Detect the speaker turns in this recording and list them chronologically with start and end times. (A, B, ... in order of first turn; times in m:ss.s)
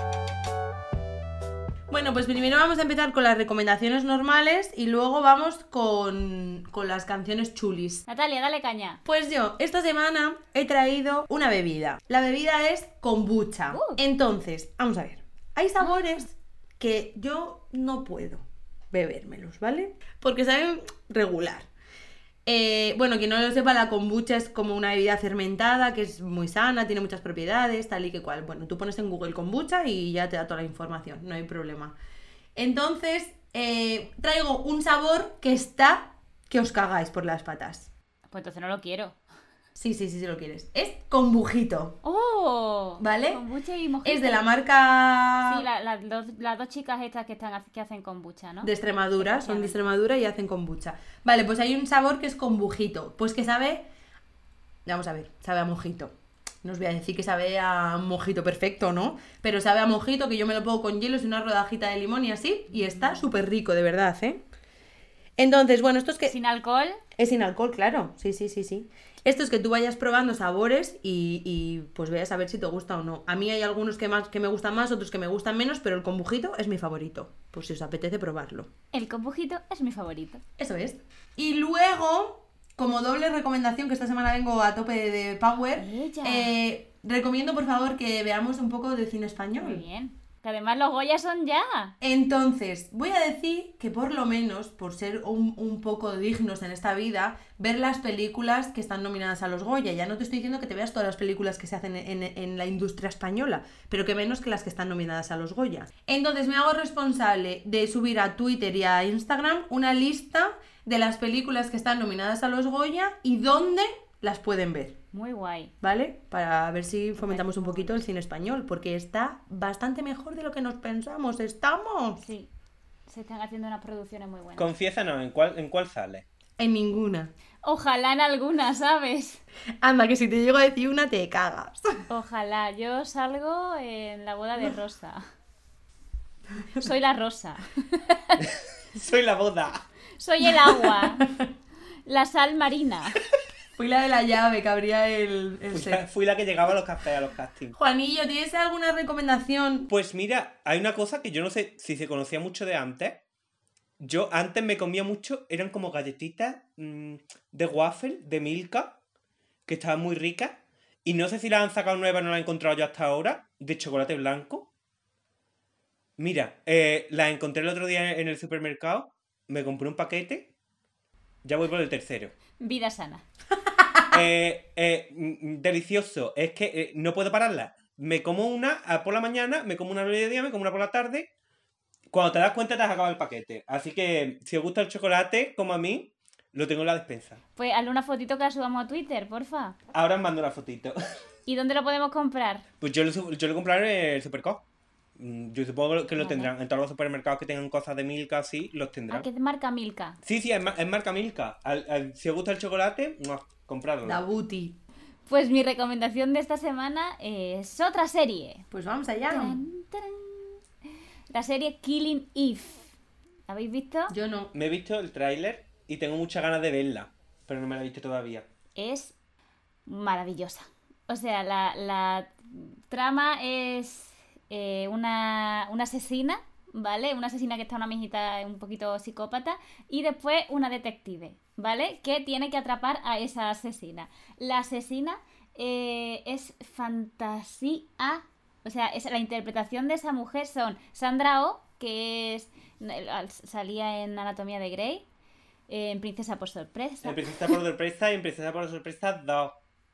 0:01.9-0:08.0 A
0:08.1-0:09.0 B
0:09.0-0:21.7 A
0:13.7-0:14.0 B
0:22.4-0:32.0 A
0:32.6-0:37.9 A
0:38.3-0:39.2 B
0:39.7-0:42.0 A
0:42.0-0:44.4 B
0:43.0-0:43.4 A
0:44.0-0:45.6 A
0:45.4-0:49.8 B
0:48.6-0:53.9 A
0:54.8-1:04.4 A
1:05.4-1:06.3 A
1:06.3-1:07.0 B
1:07.2-1:18.7 A
1:18.9-1:20.4 B
1:20.6-1:29.8 A
1:25.8-1:26.5 B
1:29.6-1:31.9 B
1:32.0-1:55.0 A
1:55.1-1:55.7 B
1:55.8-2:02.2 A
1:57.2-1:58.0 B
2:02.2-2:02.5 B
2:03.1-2:04.7 B
2:04.6-2:06.2 C
2:06.6-2:07.3 A
2:07.6-2:09.4 B
2:09.8-2:12.0 A
2:12.1-2:15.2 B
2:16.8-2:18.4 B
2:18.4-2:19.8 C
2:20.2-2:21.2 B
2:22.0-2:23.2 B
2:23.8-2:26.0 A
2:25.7-2:27.8 C
2:27.8-2:29.9 A
2:29.9-2:33.2 C
2:34.0-2:39.0 C
2:39.6-2:44.7 C
2:46.2-2:50.5 C
2:51.4-2:52.3 C
2:52.6-2:53.2 B
2:54.1-3:01.3 C
3:02.1-3:07.4 C
3:07.6-3:09.8 B
3:09.9-3:11.0 C
3:11.5-3:12.6 B
3:12.8-3:14.6 C
3:15.2-3:19.3 C
3:16.2-3:16.5 B
3:19.1-3:20.2 B
3:20.2-3:24.2 C
3:24.0-3:24.8 A
3:25.3-3:28.6 B
3:28.7-3:29.6 A
3:29.3-3:30.6 B
3:31.3-3:32.9 B
3:33.5-3:34.1 B
3:34.1-3:34.5 A
3:34.5-3:38.4 C
3:38.8-3:39.1 B
3:39.9-4:05.0 B
4:05.7-4:07.6 B
4:07.0-4:09.6 C